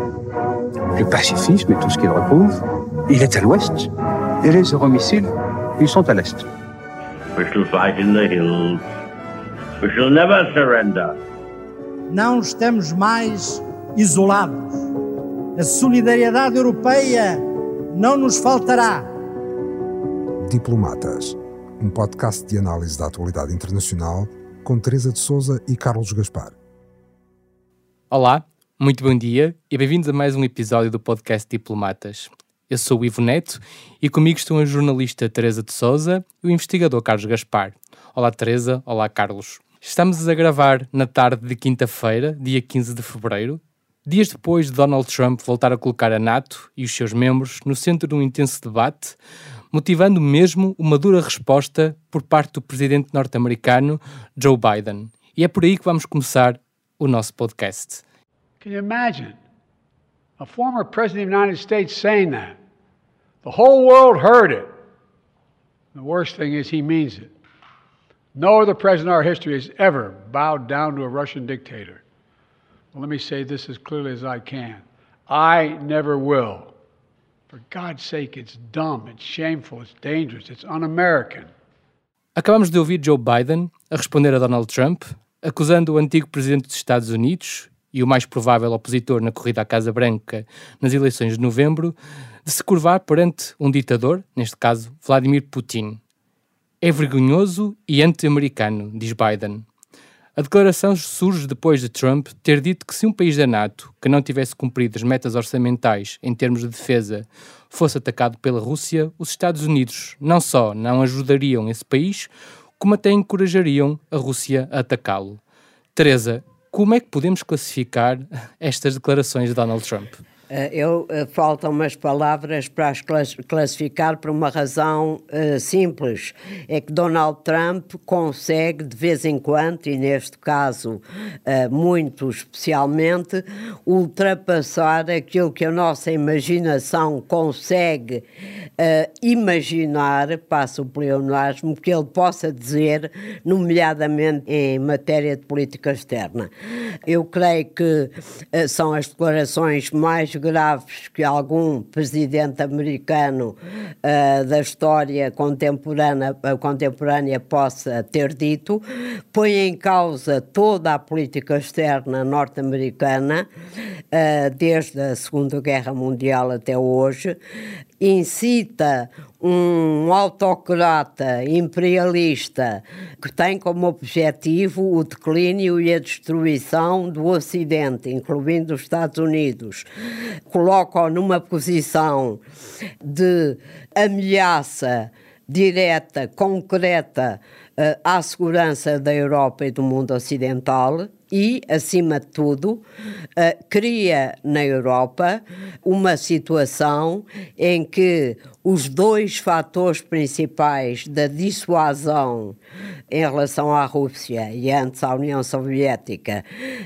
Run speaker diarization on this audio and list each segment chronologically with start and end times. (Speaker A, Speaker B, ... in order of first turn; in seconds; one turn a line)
Speaker A: 0.9-3.9
Speaker A: 4.4-6.5
Speaker B: 7.3-8.8
Speaker B: 9.8-11.2
Speaker C: 12.1-14.9
Speaker C: 15.6-19.1
Speaker D: 20.4-26.6
Speaker E: 28.1-49.2
Speaker E: 49.7-58.0
Speaker F: 58.6-59.4
Speaker F: 60.4-62.6
Speaker F: 63.4-64.7
Speaker F: 65.9-67.3
Speaker F: 68.3-72.0
Speaker F: 72.9-76.7
Speaker F: 77.5-81.5
Speaker E: 82.3-96.0
Speaker E: 96.8-99.6
Speaker E: 100.3-115.4
Speaker E: 116.0-120.2
Speaker G: 120.5-138.2
Speaker G: 138.8-146.5
Speaker G: 147.1-163.5
Speaker G: 164.1-167.4
Speaker G: 168.0-179.9
Speaker G: 180.5-182.4
Speaker G: 183.0-192.8
Speaker G: 193.3-202.6
Speaker G: 203.1-206.4